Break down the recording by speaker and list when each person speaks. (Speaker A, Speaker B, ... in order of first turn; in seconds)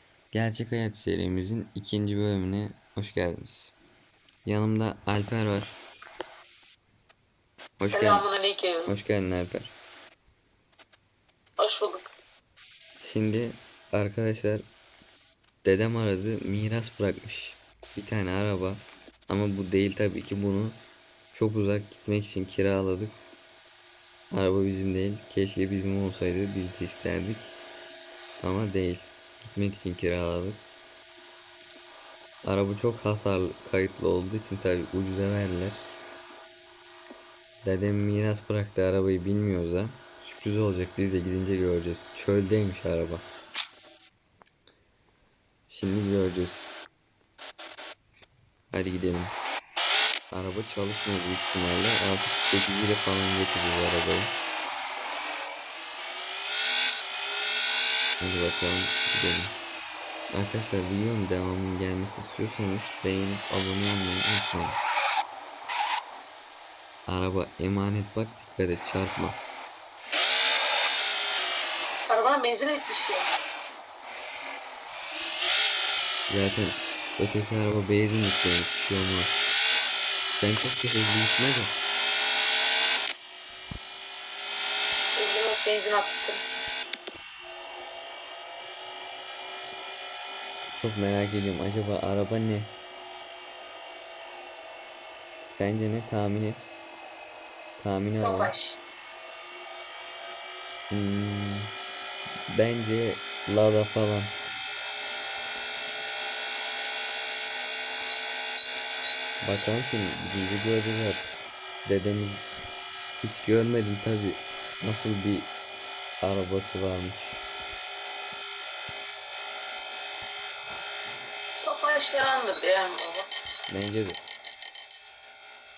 Speaker A: 0.3-3.8, 4.5-5.8, 7.8-8.2, 8.9-9.8, 13.0-14.6, 15.6-20.8, 21.3-23.2, 24.3-27.5, 28.4-30.6, 32.5-35.9, 37.6-43.2, 45.7-46.8, 48.7-49.4, 50.3-54.3, 58.2-59.6, 60.3-64.8, 67.1-69.4, 76.3-79.4, 80.4-81.8, 90.7-92.7, 95.5-96.7, 97.8-98.5, 100.9-101.7, 102.5-104.3, 109.4-111.3, 111.8-112.5, 113.2-115.5, 116.2-117.4, 123.7-124.2
Speaker B: 7.9-8.9, 11.6-12.1, 72.1-73.3, 85.2-86.4, 98.2-98.8, 121.6-123.3